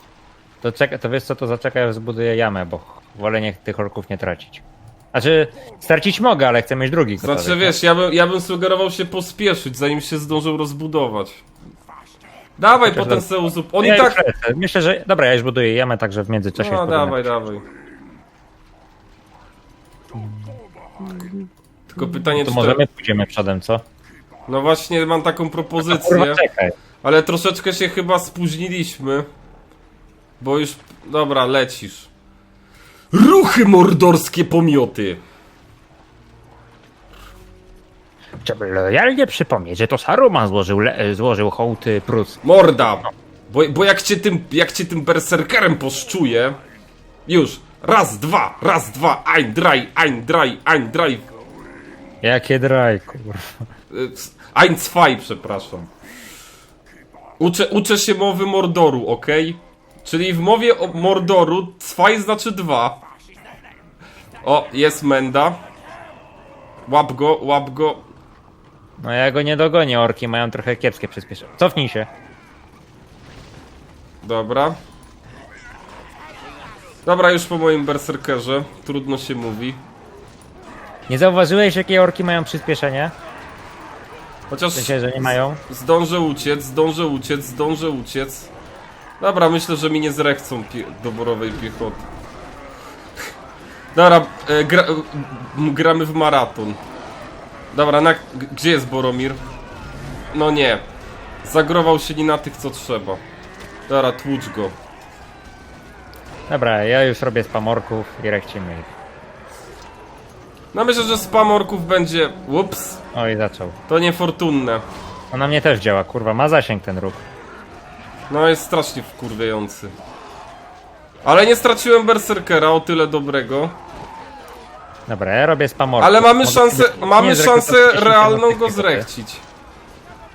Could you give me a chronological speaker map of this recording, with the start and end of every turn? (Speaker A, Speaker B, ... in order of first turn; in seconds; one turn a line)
Speaker A: 0.6-7.8
Speaker B: 7.2-11.4
Speaker B: 12.6-14.2
Speaker A: 12.8-13.3
Speaker A: 13.8-17.3
Speaker B: 16.6-17.6
Speaker A: 20.2-20.5
Speaker B: 21.9-22.8
Speaker A: 22.0-23.8
Speaker B: 24.5-26.4
Speaker A: 25.8-26.7
Speaker B: 27.0-29.3
Speaker B: 30.4-32.1
Speaker B: 33.1-35.2
Speaker A: 38.4-42.4
Speaker B: 42.4-46.6
Speaker B: 47.3-51.3
Speaker A: 52.2-53.7
Speaker B: 53.9-55.9
Speaker B: 57.4-63.0
Speaker B: 64.4-65.6
Speaker B: 66.9-68.1
Speaker A: 69.0-72.1
Speaker B: 74.2-74.8
Speaker B: 77.1-79.8
Speaker A: 81.1-83.1
Speaker B: 84.5-85.0
Speaker A: 84.8-85.6
Speaker B: 85.7-88.5
Speaker B: 89.2-92.0
Speaker B: 94.0-96.8
Speaker B: 97.7-99.4
Speaker B: 100.3-100.8
Speaker B: 101.4-103.2
Speaker B: 103.9-104.8
Speaker A: 106.5-108.9
Speaker B: 110.7-113.0
Speaker A: 113.1-113.8
Speaker B: 113.9-114.8
Speaker A: 115.3-117.2
Speaker B: 118.3-119.9
Speaker B: 121.2-123.8
Speaker A: 125.1-129.1
Speaker B: 126.0-129.4